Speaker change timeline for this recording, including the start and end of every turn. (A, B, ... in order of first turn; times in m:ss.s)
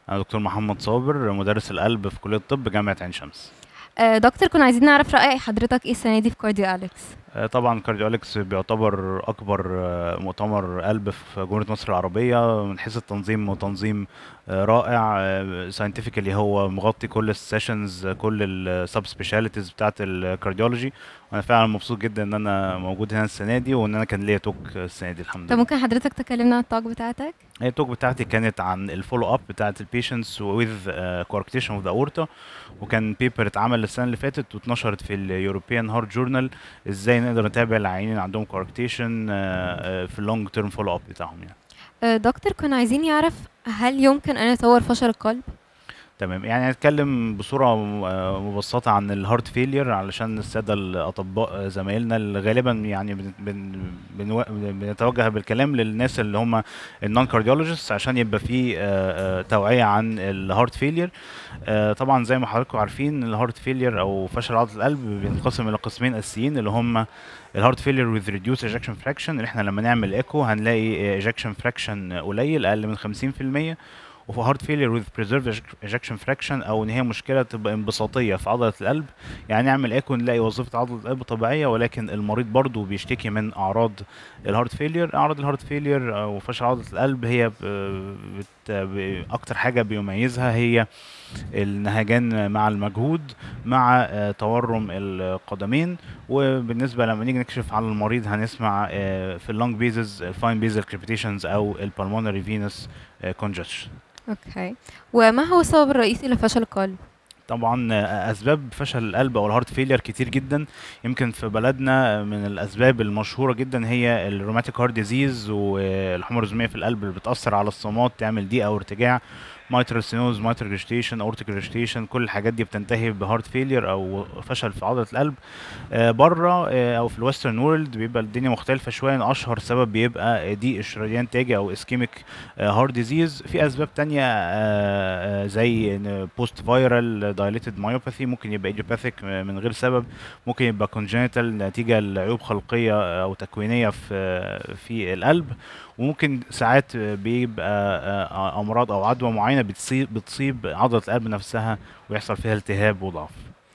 0:00.1-0:03.5 A
0:04.0-0:07.1 B
0:07.4-0:25.6 A
0:25.5-0:27.4 B
0:27.6-0:32.3 A
0:32.8-0:41.6 A
0:42.1-0:45.5 B
0:46.2-1:01.1 A
1:01.6-1:13.8 A
1:14.3-1:30.9 A
1:31.5-1:43.9 A
1:44.3-1:47.0 B
1:47.5-2:33.5 A